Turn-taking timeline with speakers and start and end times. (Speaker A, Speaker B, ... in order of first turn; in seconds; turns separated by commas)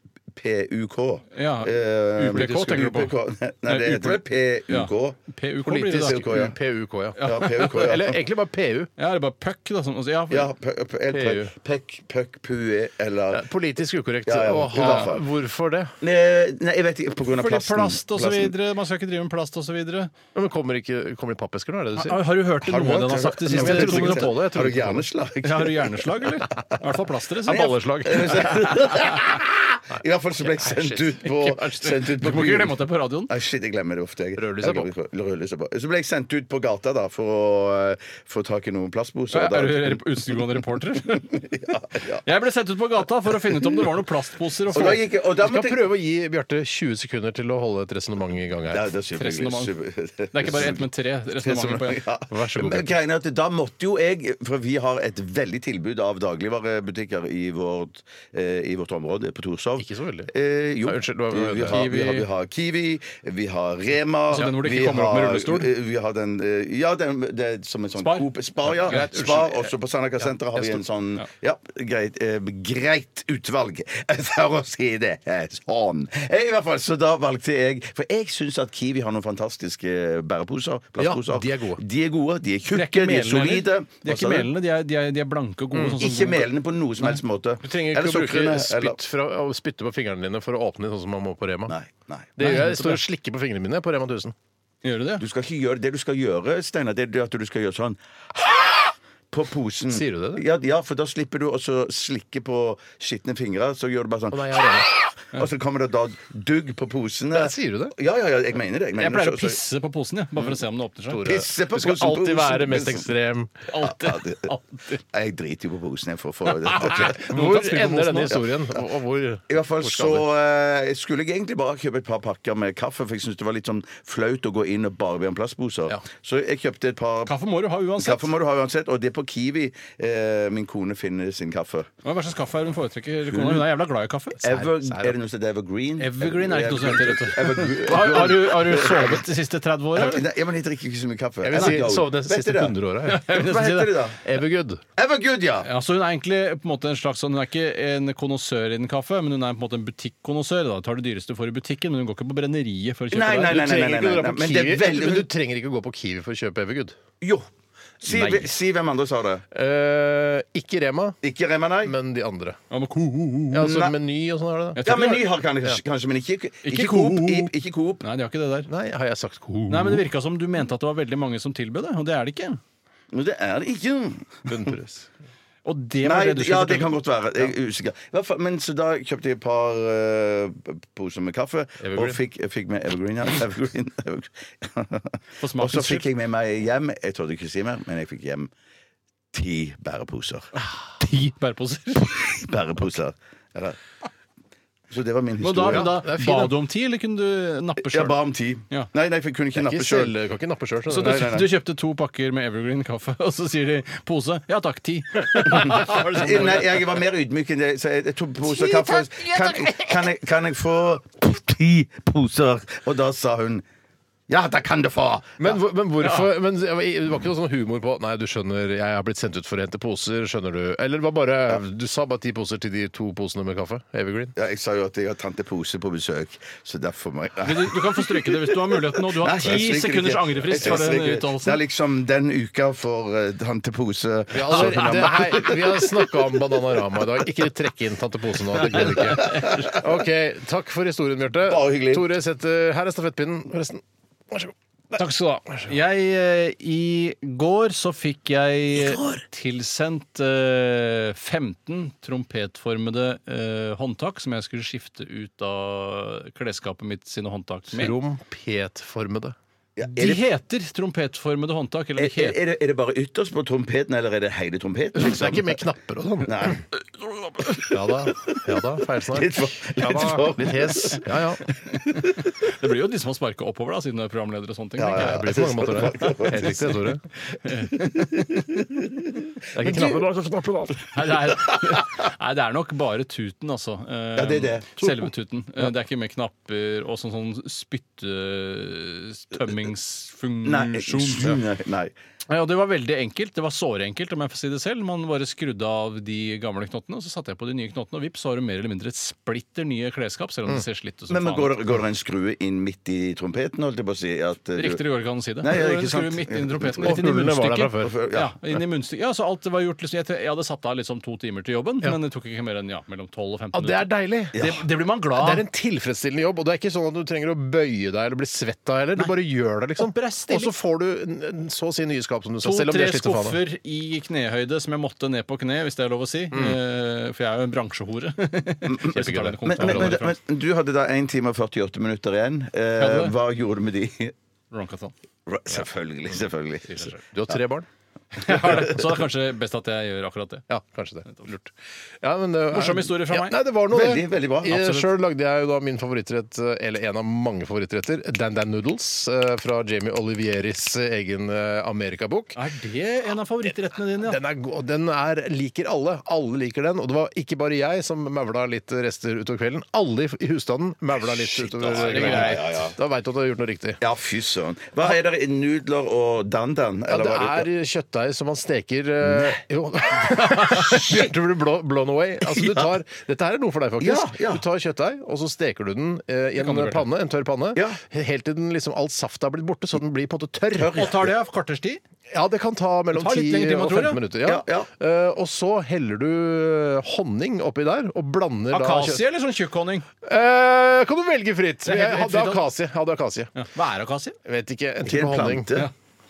Speaker A: 0.3-5.2, Speaker B: 1.3-3.1, Speaker B: 3.6-6.5, Speaker C: 5.6-8.9, Speaker A: 6.1-6.5, Speaker B: 7.2-7.7, Speaker A: 7.2-8.1, Speaker B: 9.0-10.5, Speaker A: 10.3-13.4, Speaker C: 11.1-11.5, Speaker C: 13.3-15.9, Speaker A: 14.2-15.2, Speaker B: 14.8-15.0, Speaker A: 16.0-18.5, Speaker B: 17.4-20.1, Speaker C: 20.3-22.2, Speaker B: 22.0-24.4, Speaker A: 22.6-26.0, Speaker C: 22.9-25.1, Speaker B: 25.4-29.0, Speaker C: 27.5-28.6, Speaker A: 27.5-40.4, Speaker C: 29.9-31.2, Speaker B: 31.2-33.3, Speaker C: 34.4-34.9, Speaker B: 39.3-41.3, Speaker A: 41.1-42.2, Speaker B: 42.2-45.0, Speaker A: 44.7-45.9, Speaker C: 45.4-48.9, Speaker A: 48.7-50.8, Speaker B: 49.2-49.7, Speaker B: 50.3-52.0, Speaker A: 51.4-84.5, Speaker C: 52.3-52.9, Speaker C: 59.8-60.3, Speaker C: 60.8-62.0, Speaker B: 61.7-62.2, Speaker B: 64.3-65.7, Speaker B: 68.0-68.3, Speaker C: 68.7-69.7, Speaker B: 68.9-69.3, Speaker C: 81.0-81.8, Speaker B: 82.7-87.2, Speaker C: 85.7-86.0, Speaker A: 86.0-89.0, Speaker C: 87.6-91.7, Speaker A: 91.7-92.3, Speaker C: 92.4-94.3, Speaker B: 92.4-93.0, Speaker B: 94.8-95.2, Speaker A: 95.2-109.6, Speaker C: 99.9-100.4, Speaker C: 104.3-104.9, Speaker C: 107.3-107.9, Speaker B: 109.0-111.2, Speaker C: 111.1-113.6, Speaker A: 111.2-113.1, Speaker B: 113.7-115.0, Speaker A: 113.8-114.5, Speaker A: 115.1-117.2, Speaker C: 116.7-120.2, Speaker B: 116.9-118.4, Speaker A: 119.5-127.3, Speaker B: 127.2-128.3, Speaker A: 128.0-131.9, Speaker B: 132.0-134.4, Speaker A: 133.3-133.6, Speaker A: 134.4-139.2, Speaker C: 134.4-135.2, Speaker B: 136.0-140.2, Speaker A: 139.9-142.8, Speaker C: 141.4-143.2, Speaker B: 141.6-141.8, Speaker B: 143.1-144.0, Speaker A: 143.3-144.2, Speaker C: 144.2-144.8, Speaker A: 145.0-145.7, Speaker B: 145.6-153.6, Speaker A: 153.1-155.3, Speaker C: 153.4-156.9, Speaker A: 157.2-157.5, Speaker A: 158.0-159.4, Speaker C: 158.0-158.5, Speaker C: 159.5-161.2, Speaker A: 161.2-161.9, Speaker C: 161.8-165.8, Speaker B: 162.7-163.3, Speaker A: 163.5-163.9, Speaker B: 164.8-165.2, Speaker A: 164.8-168.0, Speaker B: 166.6-167.4, Speaker B: 168.0-168.7, Speaker C: 168.7-170.1, Speaker B: 169.7-172.6, Speaker A: 173.1-174.7, Speaker C: 174.5-175.1, Speaker B: 175.6-177.0, Speaker A: 176.0-188.5, Speaker C: 181.8-182.2, Speaker B: 185.4-186.1, Speaker A: 189.3-190.5, Speaker B: 190.5-192.3, Speaker A: 192.3-193.8, Speaker A: 194.9-195.9, Speaker B: 195.4-198.1, Speaker C: 195.7-196.5, Speaker A: 197.8-200.1, Speaker C: 199.5-201.3, Speaker B: 200.9-207.0, Speaker A: 201.0-201.5, Speaker A: 205.5-213.6, Speaker A: 214.3-215.6, Speaker C: 215.4-224.3, Speaker A: 224.3-236.1, Speaker B: 227.4-231.6, Speaker C: 234.3-244.5, Speaker B: 239.1-239.6, Speaker A: 239.2-239.7, Speaker A: 241.4-242.1, Speaker B: 245.0-257.9, Speaker C: 257.7-259.4, Speaker A: 259.8-260.2, Speaker B: 260.0-262.4, Speaker A: 262.0-265.6, Speaker C: 264.9-266.6, Speaker A: 266.2-268.4, Speaker C: 267.7-271.4, Speaker A: 269.1-271.0, Speaker B: 271.7-275.2, Speaker A: 274.8-276.8, Speaker C: 274.9-277.0, Speaker B: 277.4-278.3, Speaker A: 277.6-280.1, Speaker C: 279.5-280.8, Speaker B: 280.9-291.4, Speaker A: 281.3-281.9, Speaker A: 284.1-284.9, Speaker A: 290.4-291.9, Speaker B: 292.3-301.5, Speaker A: 301.1-304.8, Speaker B: 304.6-315.4, Speaker A: 305.4-307.0, Speaker C: 306.8-307.9, Speaker A: 307.8-308.3, Speaker C: 313.5-314.4, Speaker A: 314.3-314.6, Speaker C: 315.1-323.4, Speaker B: 319.8-320.5, Speaker B: 322.4-330.1, Speaker C: 326.3-326.6, Speaker A: 328.7-334.1, Speaker C: 328.9-330.1, Speaker B: 332.8-333.1, Speaker B: 334.5-334.9, Speaker A: 335.3-336.8, Speaker B: 336.7-337.0, Speaker C: 337.0-337.7, Speaker B: 338.1-340.5, Speaker A: 338.4-338.7, Speaker C: 340.5-341.5, Speaker B: 341.1-341.4, Speaker C: 342.0-352.4, Speaker B: 342.5-343.4, Speaker A: 343.7-344.8, Speaker B: 344.6-344.8, Speaker B: 352.4-354.2, Speaker C: 353.9-363.8, Speaker A: 361.1-362.7, Speaker B: 361.7-362.4, Speaker A: 363.8-367.5, Speaker C: 366.9-380.9, Speaker A: 370.1-371.1, Speaker A: 372.3-372.7, Speaker A: 373.8-374.4, Speaker B: 376.4-376.8, Speaker A: 380.6-381.1, Speaker B: 380.7-381.8, Speaker C: 382.1-389.0, Speaker B: 382.9-384.0, Speaker A: 384.2-384.7, Speaker B: 388.5-389.9, Speaker C: 390.0-393.3, Speaker B: 391.6-392.4, Speaker B: 393.3-394.2, Speaker C: 394.2-395.7, Speaker A: 394.8-395.7